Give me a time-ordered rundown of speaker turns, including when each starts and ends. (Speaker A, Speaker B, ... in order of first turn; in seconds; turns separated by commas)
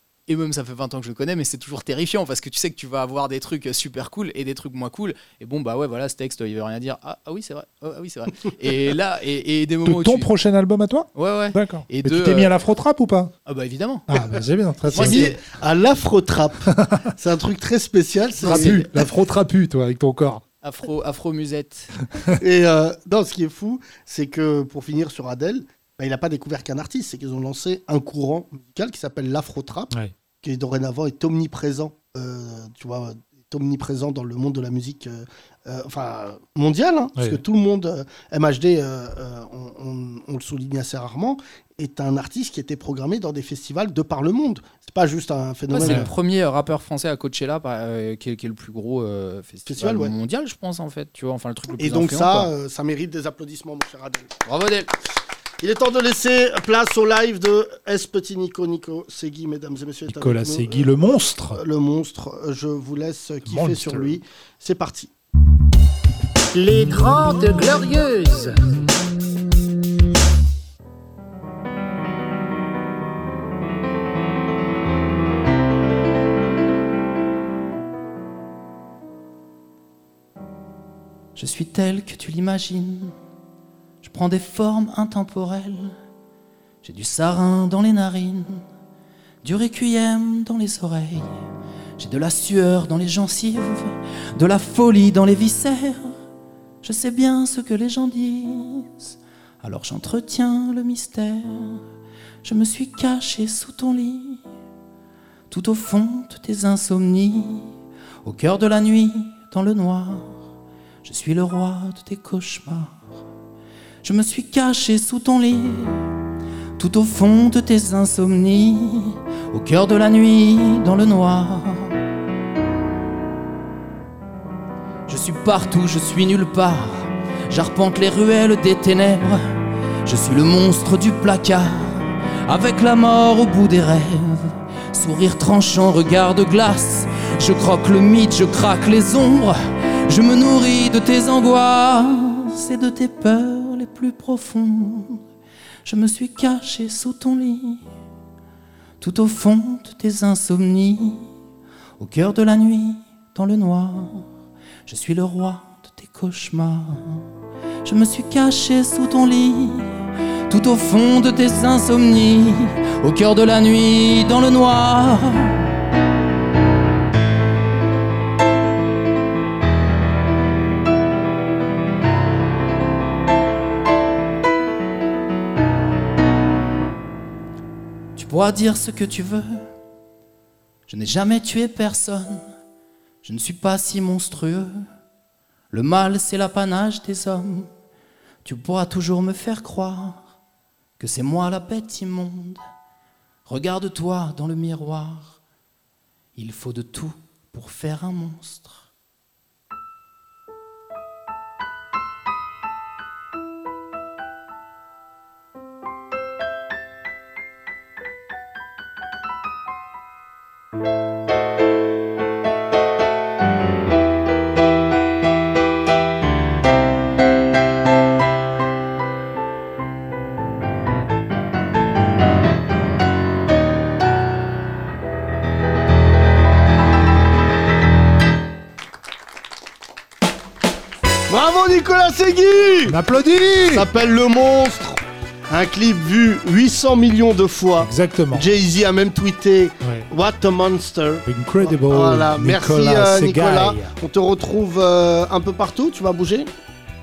Speaker A: 0.3-10.3, Speaker B: 9.8-13.3, Speaker A: 11.1-12.5, Speaker A: 13.4-14.1, Speaker B: 14.1-15.4, Speaker C: 14.8-18.9, Speaker A: 14.9-15.4, Speaker B: 16.7-17.0, Speaker B: 18.4-20.4, Speaker A: 18.5-18.8, Speaker A: 20.6-21.9, Speaker C: 22.4-46.1, Speaker A: 45.7-52.5, Speaker B: 45.8-46.1, Speaker C: 49.7-50.1, Speaker C: 51.8-54.3, Speaker A: 54.4-54.9, Speaker C: 55.6-65.1, Speaker B: 60.1-61.6, Speaker B: 63.5-64.1, Speaker D: 66.5-68.8, Speaker A: 81.3-83.1, Speaker A: 84.0-86.0, Speaker A: 86.8-88.6, Speaker A: 89.4-91.4, Speaker A: 92.0-96.2, Speaker A: 96.8-101.8, Speaker A: 102.4-104.4, Speaker A: 105.5-110.4, Speaker A: 111.0-113.1, Speaker A: 114.0-116.1, Speaker A: 116.8-122.0, Speaker A: 125.1-129.5, Speaker A: 130.0-145.2, Speaker A: 145.8-147.8, Speaker A: 149.0-151.3, Speaker A: 152.0-154.3, Speaker A: 154.9-157.2, Speaker A: 157.8-160.0, Speaker A: 160.5-165.7, Speaker A: 178.2-179.7, Speaker A: 180.9-182.5, Speaker A: 183.2-184.8, Speaker A: 185.7-187.7, Speaker A: 188.4-190.3, Speaker A: 191.0-192.6, Speaker A: 193.4-195.4, Speaker A: 196.3-198.9, Speaker C: 231.3-233.0, Speaker B: 232.8-233.9, Speaker C: 233.7-246.5, Speaker B: 237.8-238.5, Speaker B: 239.8-240.1, Speaker B: 241.2-243.9